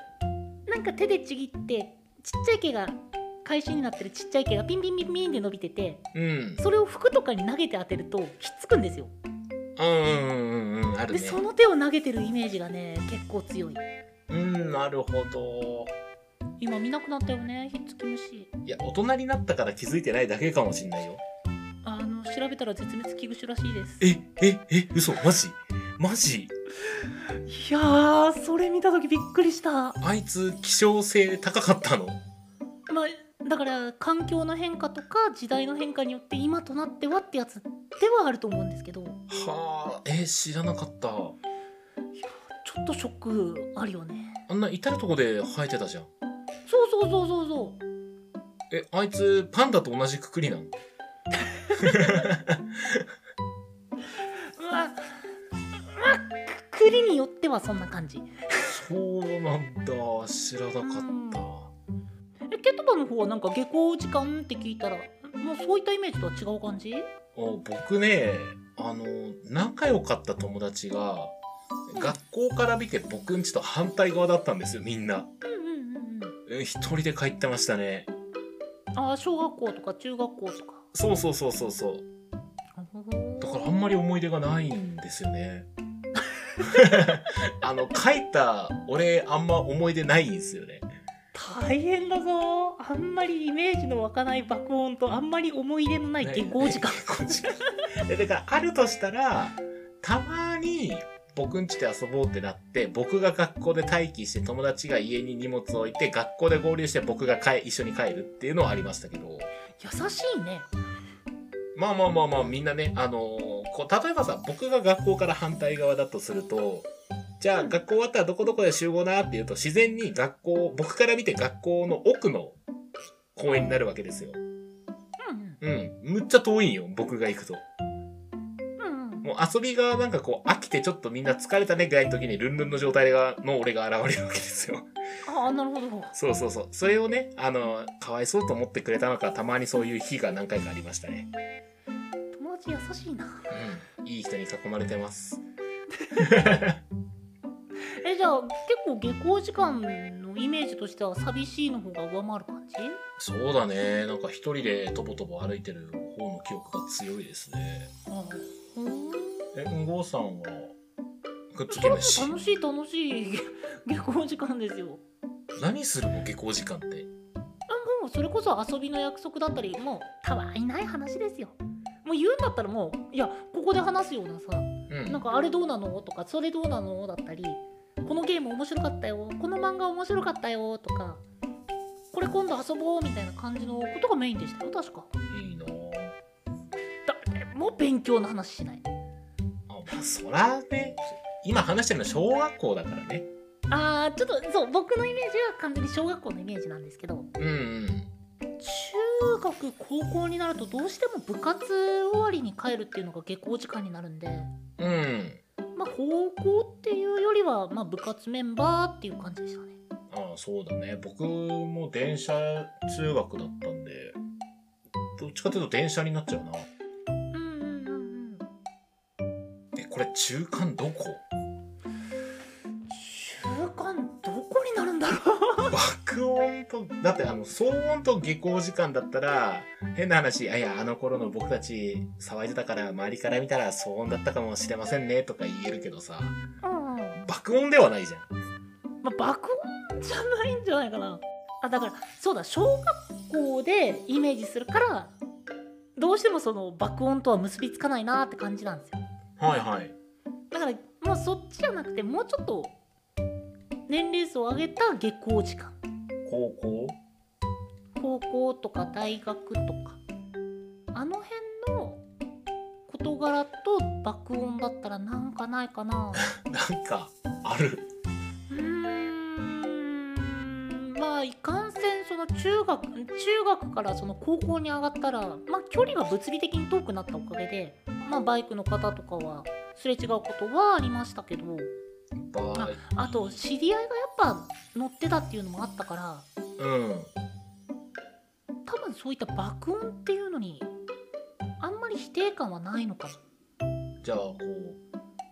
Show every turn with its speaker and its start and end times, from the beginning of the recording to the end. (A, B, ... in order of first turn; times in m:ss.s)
0:00.7-0:06.0 A
0:06.1-0:06.6 B
0:06.6-0:09.1 A
0:09.8-0:11.4 B
0:11.1-0:13.8 A
0:14.3-0:16.0 B
0:16.6-0:18.5 A
0:18.7-0:21.2 B
0:21.8-0:24.1 A
0:24.0-0:26.5 B
0:27.3-0:30.0 A
0:30.0-0:32.2 B
0:32.9-0:39.2 A
0:39.3-0:41.4 B
0:42.2-0:44.4 A
0:44.5-0:46.1 B
0:46.7-0:47.8 A
0:48.7-0:50.7 B
0:51.8-0:53.0 B
0:51.9-0:52.2 A
0:54.5-0:55.2 A
0:55.8-0:58.7 A
0:58.7-1:01.7 B
1:00.8-1:01.5 A
1:02.5-1:07.1 A
1:07.4-1:11.3 B
1:11.9-1:15.3 B
1:15.4-1:16.4 A
1:16.5-1:18.1 B
1:18.9-1:20.8 A
1:20.9-1:22.0 B
1:22.8-1:23.8 A
1:23.4-1:25.7 B
1:26.6-1:30.9 B
1:31.3-1:37.7 A
1:36.2-1:49.5 B
1:49.8-1:50.7 A
1:51.8-1:56.9 B
1:57.4-2:02.6 B
2:03.4-2:04.4 B
2:05.2-2:05.6 A
2:05.6-2:07.6 B
2:08.8-2:09.2 A
2:09.2-2:14.9 B
2:15.3-2:16.1 A
2:16.1-2:21.3 B
2:22.3-2:23.5 A
2:23.5-2:25.4 B
2:26.2-2:26.8 B
2:28.0-2:33.0 A
2:33.2-2:37.9 B
2:38.1-2:39.5 A
2:39.6-2:40.8 B
2:41.5-2:42.4 B
2:41.7-2:45.0 A
2:45.6-2:47.1 B
2:47.7-3:01.2 A
2:54.9-2:55.2 B
3:02.1-3:05.1 A
3:05.3-3:06.2 B
3:07.1-3:08.8 A
3:09.7-3:13.3 B
3:13.7-3:17.3 A
3:17.4-3:18.1 B
3:18.6-3:24.5 A
3:24.8-3:25.4 B
3:25.8-3:29.8 A
3:30.1-3:34.2 B
3:35.2-3:36.7 B
3:37.3-3:38.4 A
3:39.8-3:41.2 B
3:42.9-3:45.8 A
3:45.7-3:56.4 B
3:56.6-3:57.2 A
3:57.2-3:58.3 B
3:59.0-4:05.2 A
4:06.0-4:09.0 A
4:09.4-4:10.0 B
4:10.5-4:12.8 A
4:13.9-4:15.8 A
4:16.3-4:17.0 B
4:18.0-4:20.0 A
4:20.9-4:22.0 A
4:22.9-4:26.3 A
4:26.2-4:27.9 B
4:28.5-4:41.7 A
4:42.2-4:43.4 B
4:42.5-4:46.3 A
4:46.6-4:47.1 B
4:48.7-4:50.7 A
4:51.6-4:53.2 A
4:54.0-4:54.8 B